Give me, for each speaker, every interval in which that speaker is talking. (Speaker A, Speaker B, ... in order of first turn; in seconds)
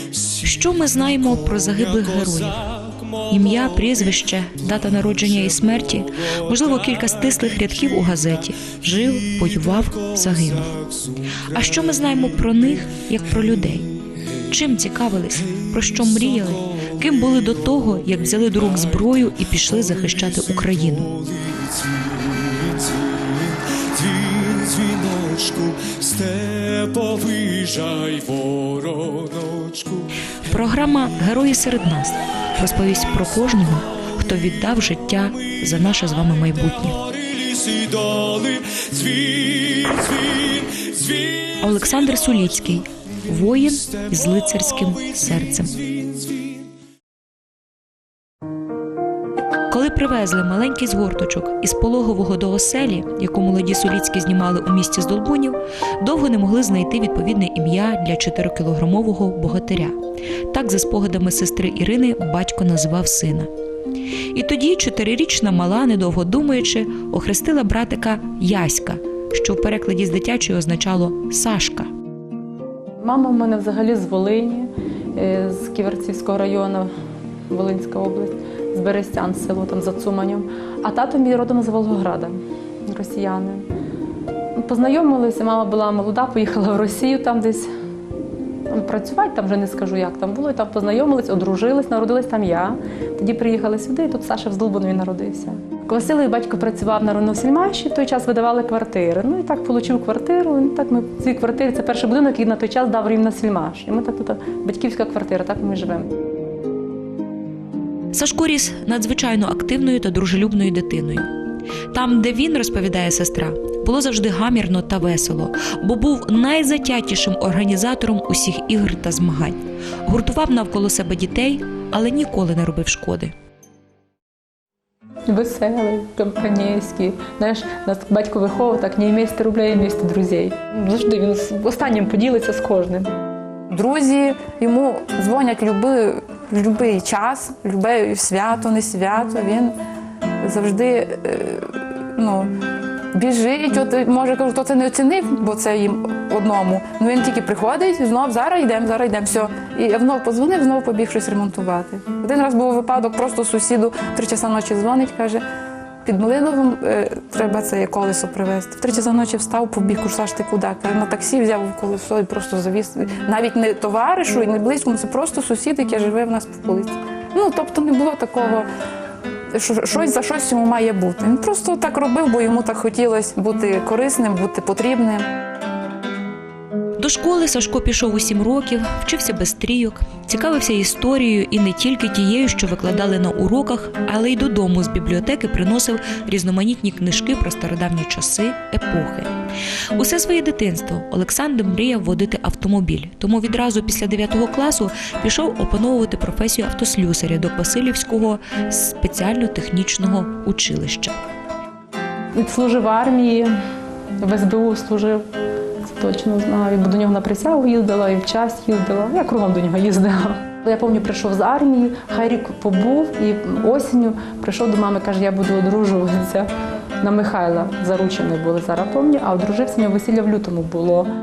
Speaker A: 0.4-10.8, 11.5-21.2, 30.4-37.0, 41.4-45.9, 49.7-60.0, 60.5-63.5, 64.3-71.9, 108.1-111.3, 111.9-123.3, 177.0-189.3, 189.9-201.2
Speaker B: 24.5-30.1, 37.7-39.2
Speaker C: 73.0-76.9, 77.5-82.3, 82.9-83.7, 84.5-87.7, 88.7-106.1, 125.3-133.1, 202.3-203.5, 204.2-205.2, 205.8-221.1
Speaker D: 133.7-139.8, 140.4-142.5, 143.1-155.4, 156.0-168.7, 169.5-175.3